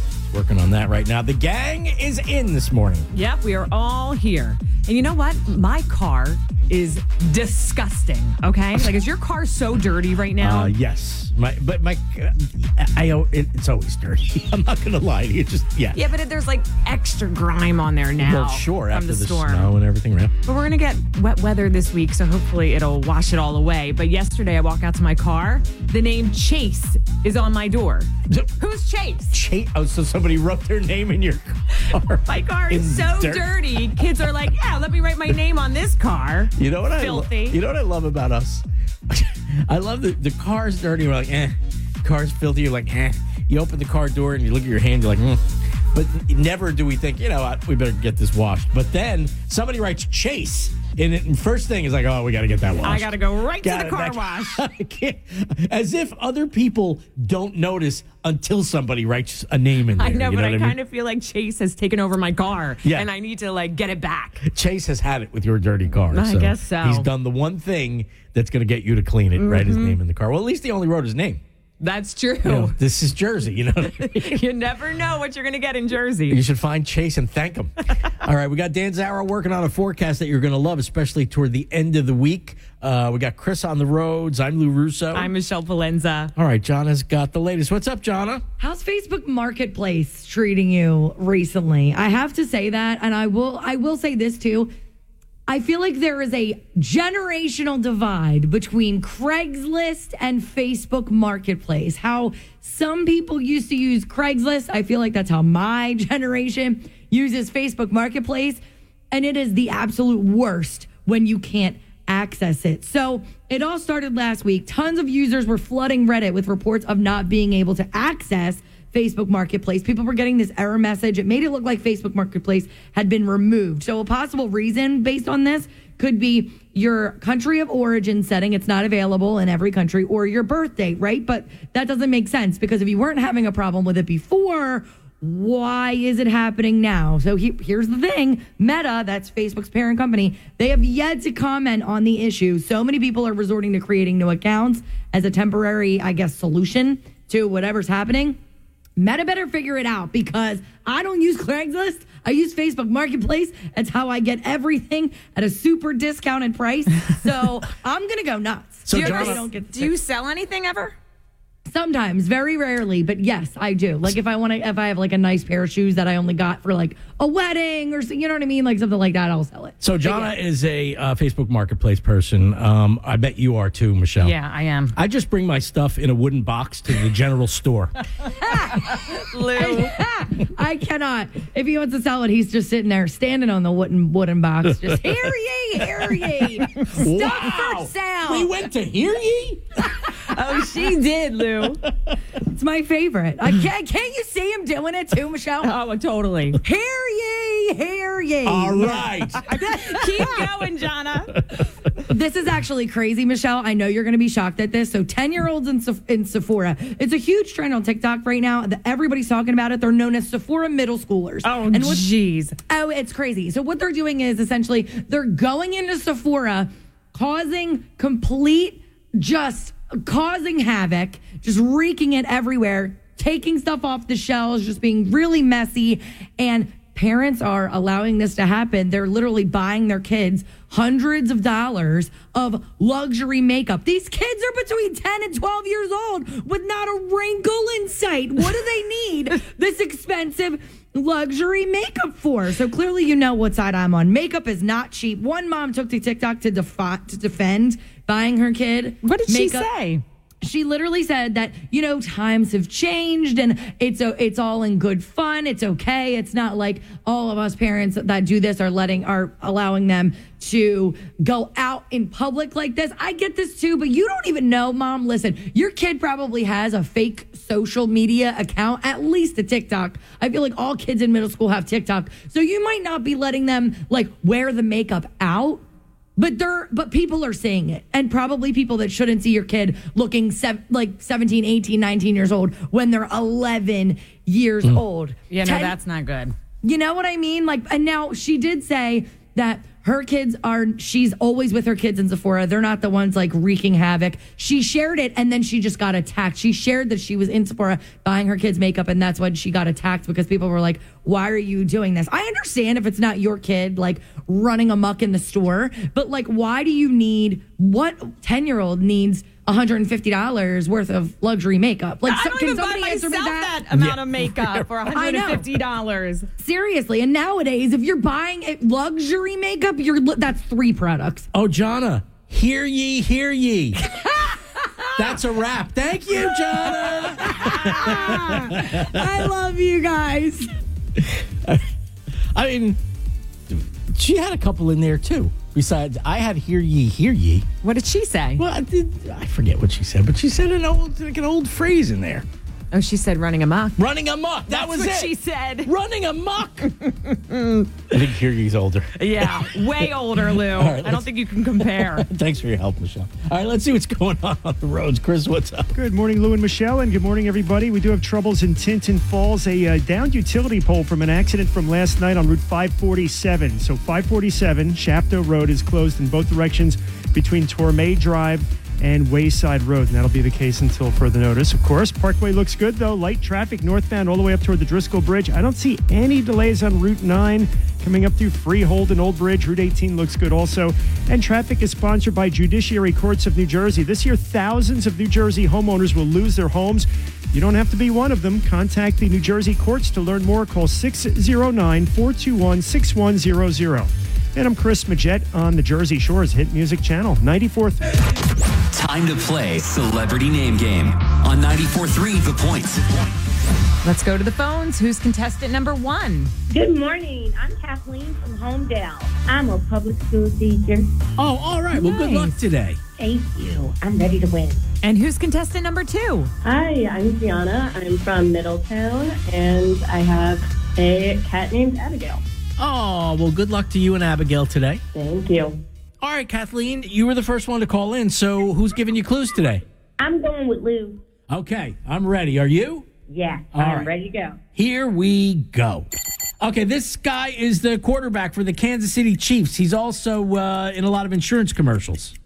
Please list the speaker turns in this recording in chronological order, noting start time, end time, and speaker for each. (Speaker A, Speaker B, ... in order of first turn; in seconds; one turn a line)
Speaker A: 0.3-3.1
Speaker B: 3.1-10.7
Speaker A: 10.4-16.0
Speaker B: 15.9-19.7
Speaker A: 18.2-20.3
Speaker B: 20.4-29.4
Speaker A: 29.3-33.6
Speaker B: 32.2-37.6
Speaker A: 36.6-60.8
Speaker B: 52.8-54.6
Speaker B: 60.0-64.4
Speaker A: 64.4-71.4
Speaker B: 66.1-67.1
Speaker B: 69.4-70.0
Speaker B: 71.8-72.7
Speaker A: 72.4-74.4
Speaker B: 73.9-76.4
Speaker A: 76.3-85.3
Speaker B: 85.1-86.3
Speaker A: 86.3-88.4
Speaker C: 88.6-94.7
Speaker C: 95.5-148.4
Speaker C: 149.0-159.9
Speaker A: 158.8-159.4
Speaker B: 158.9-160.9
Speaker C: 161.7-170.2
Speaker A: 169.8-174.3
Speaker B: 174.2-174.9
Speaker A: 174.9-177.9
Speaker C: 178.4-188.5
Speaker B: 178.7-179.9
Speaker A: 184.7-185.0
Speaker A: 186.0-190.1
Speaker B: 190.2-191.8
Speaker A: 191.8-192.1
Speaker C: 192.4-195.7
Speaker B: 195.6-196.6
Speaker C: 196.6-199.2
Speaker A: 198.4-200.0
Speaker B: 199.5-201.4
Speaker C: 202.1-212.1
Speaker B: 211.4-212.6
Speaker C: 212.7-249.7
Speaker B: 249.0-250.0
Speaker C: 250.4-275.6
Speaker C: 276.2-285.8
Speaker B: 285.3-286.3
Speaker C: 286.6-313.6
Speaker B: 312.0-316.3
Speaker A: 313.7-314.7
Speaker C: 314.9-315.5
Speaker C: 316.4-321.3
Speaker A: 321.3-323.8
Speaker C: 323.9-325.0
Speaker A: 324.9-329.0
Speaker C: 327.2-330.5
Speaker B: 327.4-328.3
Speaker A: 331.0-331.6
Speaker A: 332.3-332.8
Speaker A: 333.5-337.5
Speaker B: 337.6-338.4
Speaker A: 338.4-342.2
Speaker B: 342.7-343.8
Speaker A: 343.8-346.7
Speaker B: 344.5-345.7
Speaker B: 346.8-347.7
Speaker A: 347.9-355.7
Speaker B: 348.9-352.1
Speaker D: 355.7-397.9
Speaker E: 398.7-402.8
Speaker B: 403.8-406.3
Speaker F: 406.5-410.9
Speaker A: 411.2-412.8
Speaker B: 411.7-412.3
Speaker F: 413.0-414.6
Speaker B: 414.8-416.3
Speaker F: 416.4-422.2
Speaker A: 422.6-424.8
Speaker F: 424.9-425.6
Speaker A: 426.0-429.6
Speaker F: 430.0-431.0
Speaker A: 431.3-432.9
Speaker F: 433.1-434.4
Speaker A: 433.5-433.9
Speaker A: 434.6-435.9
Speaker A: 436.4-442.1